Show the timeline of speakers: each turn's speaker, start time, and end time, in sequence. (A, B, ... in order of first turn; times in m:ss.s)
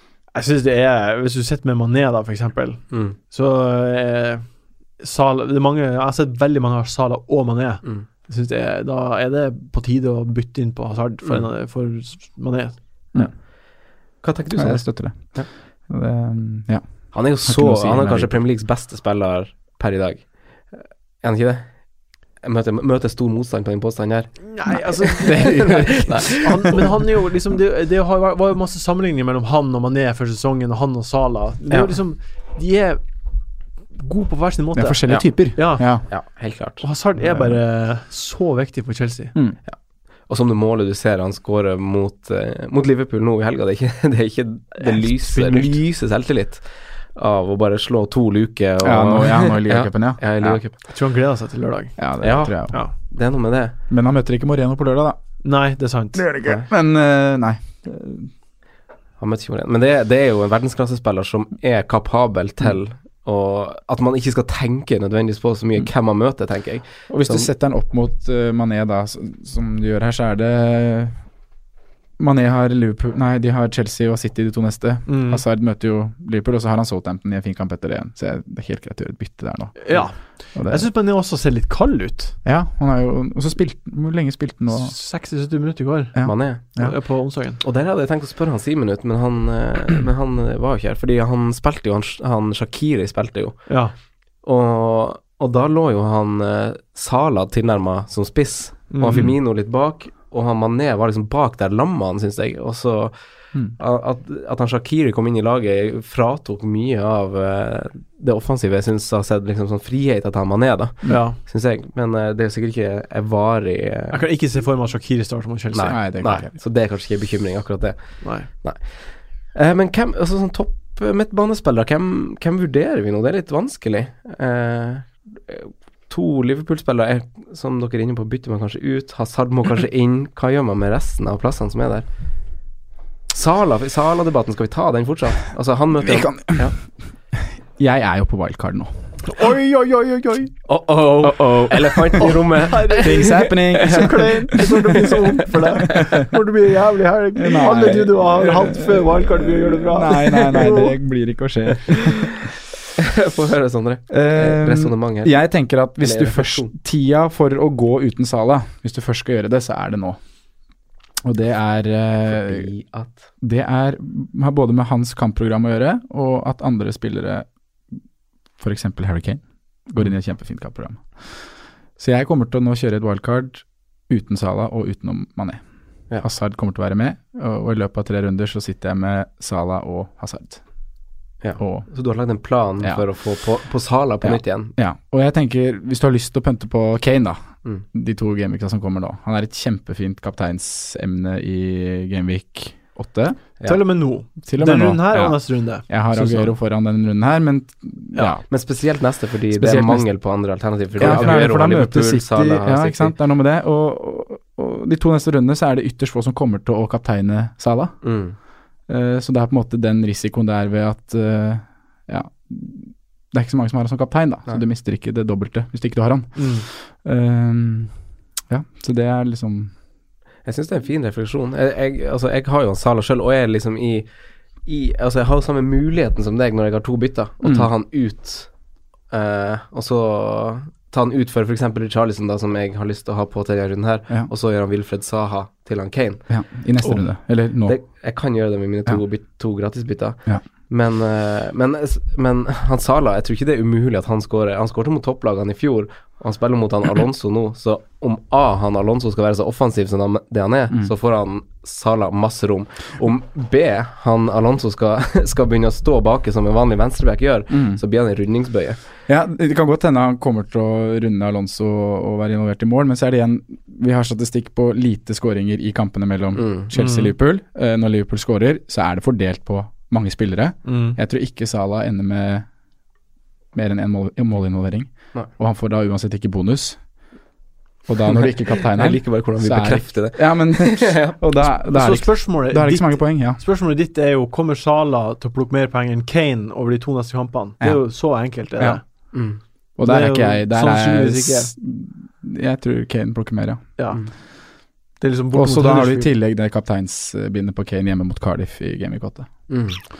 0:00.3-0:04.5 A
0:02.9-0:03.2 B
0:05.0-0:12.8 A
0:14.2-0:15.5 B
0:14.6-0:18.4 C
0:17.1-0:21.8 B
0:22.4-0:24.5 B
0:24.5-0:25.7 A
0:25.1-0:26.8 B
0:25.2-0:26.3 C
0:26.3-0:33.0 A
0:31.7-0:31.9 B
0:33.9-0:36.2 A
0:34.7-0:36.0 C
0:36.1-0:36.8 B
0:36.8-0:39.3 A
0:37.2-0:37.6 C
0:39.7-0:50.8 B
0:44.8-0:45.8 A
0:48.8-0:50.6 C
0:50.9-0:52.0 A
0:52.0-0:52.7 C
0:52.2-0:53.7 B
0:53.9-0:55.2 C
0:55.4-0:56.2 A
0:56.1-0:58.3 C
0:59.2-1:07.5 B
1:07.1-1:11.2 C
1:12.2-1:20.9 C
1:15.1-1:15.4 A
1:19.8-1:22.4 A
1:22.4-1:24.9 C
1:24.7-1:27.6 A
1:26.1-1:26.9 C
1:26.2-1:26.7 B
1:27.6-1:33.8 B
1:33.7-1:33.9 A
1:34.4-1:43.1 B
1:38.9-1:39.3 A
1:43.8-1:54.2 B
1:51.1-1:51.4 A
1:54.1-1:56.0 A
1:55.7-2:12.0 B
1:55.9-1:56.5 C
1:58.2-1:58.5 A
2:13.3-2:16.8 B
2:16.0-2:16.7 C
2:17.4-2:18.9 C
2:19.2-2:20.5 A
2:20.7-2:24.1 B
2:21.2-2:22.3 C
2:22.2-2:30.9 A
2:23.0-2:24.7 C
2:27.4-2:32.3 C
2:33.0-2:35.3 B
2:34.1-2:40.2 C
2:36.0-2:36.7 B
2:41.2-2:42.7 C
2:42.3-2:43.2 B
2:43.4-2:47.4 C
2:48.6-2:51.4 C
2:52.0-2:55.6 C
2:56.2-3:00.6 C
3:01.4-3:04.7 B
3:01.6-3:01.9 C
3:04.2-3:13.4 C
3:13.6-3:15.9 A
3:14.4-3:18.4 C
3:18.5-3:23.1 B
3:19.5-3:20.1 C
3:21.0-3:28.1 C
3:28.0-3:28.4 B
3:28.9-3:37.9 C
3:36.4-3:36.6 A
3:38.5-3:39.7 C
3:40.4-3:44.1 B
3:44.6-3:48.5 B
3:47.4-3:47.7 C
3:49.1-3:56.2 B
3:56.3-3:57.8 C
3:57.6-4:18.8 B
4:17.5-4:17.8 C
4:19.1-4:32.5 C
4:26.4-4:26.7 B
4:26.8-4:27.1 A
4:30.6-4:31.0 A
4:33.5-4:36.8 C
4:37.9-4:43.4 C
4:38.1-4:41.2 B
4:41.7-4:48.8 A
4:47.6-4:48.8 C
4:49.1-4:49.4 B
4:49.8-4:53.7 C
4:49.8-4:51.5 A
4:55.0-4:56.1 A
4:55.3-4:59.3 C
4:59.5-4:59.8 B